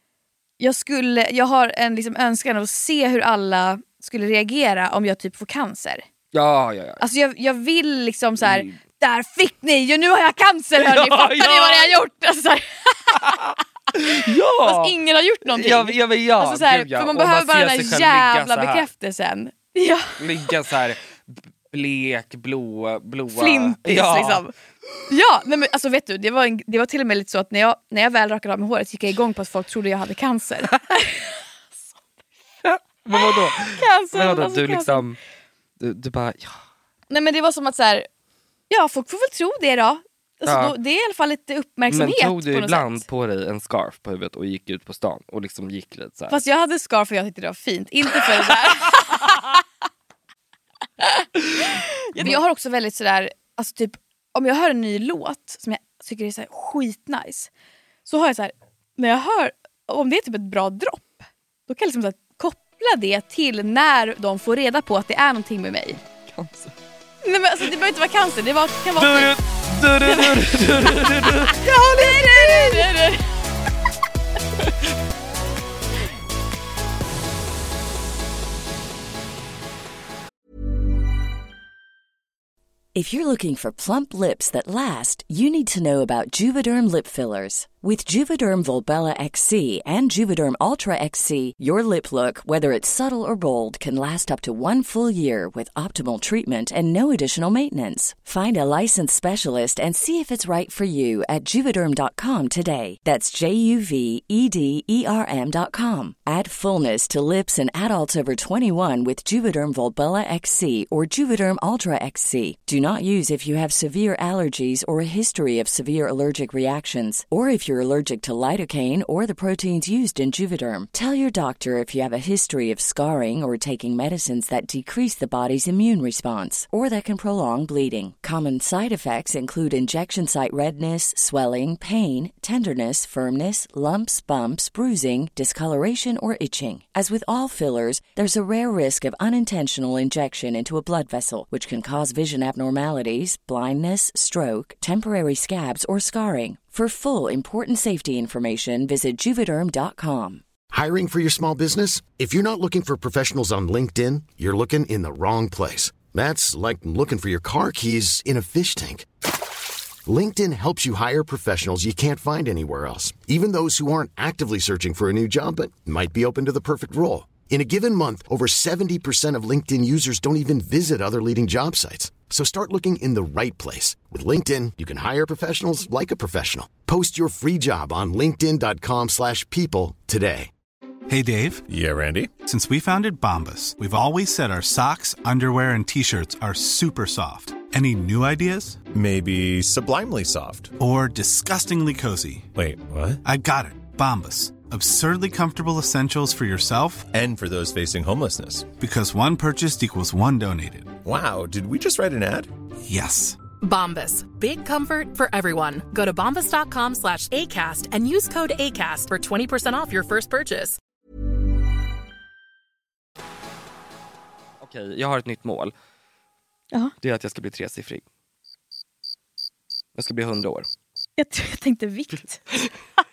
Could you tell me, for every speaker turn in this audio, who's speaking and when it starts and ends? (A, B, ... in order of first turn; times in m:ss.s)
0:00.6-0:06.0 A
0:06.3-0:07.0 B
0:07.0-0:13.4 A
0:08.4-0:08.8 B
0:10.8-0:11.9 B
0:13.2-0:14.9 B
0:14.6-0:20.2 A
0:15.5-0:18.9 B
0:20.2-0:24.4 B
0:23.3-0:24.5 A
0:25.1-0:31.2 A
0:32.6-0:35.2 B
0:33.1-0:35.0 A
0:35.8-0:36.6 B
0:37.1-0:38.1 A
0:38.7-0:43.0 A
0:40.4-0:40.8 B
0:41.9-0:46.4 B
0:46.3-0:49.6 A
0:48.2-0:49.0 B
0:51.0-0:57.5 A
0:58.0-1:06.0 A
1:06.3-1:06.7 B
1:07.2-1:09.3 A
1:09.0-1:12.9 B
1:10.0-1:13.2 A
1:22.9-2:30.4 C
2:30.7-2:39.0 D
2:40.0-3:00.5 D
3:01.1-3:01.6 E
3:01.7-3:02.4 F
3:02.4-3:08.8 E
3:08.9-3:10.8 F
3:10.8-3:12.5 E
3:12.5-3:13.2 F
3:13.2-3:17.1 E
3:17.1-3:18.8 F
3:18.8-3:20.9 E
3:21.0-3:22.5 F
3:22.9-3:23.4 E
3:23.6-3:30.8 G
3:34.6-3:35.7 B
3:37.0-3:38.0 B
3:40.0-3:40.7 B
3:41.2-3:42.4 A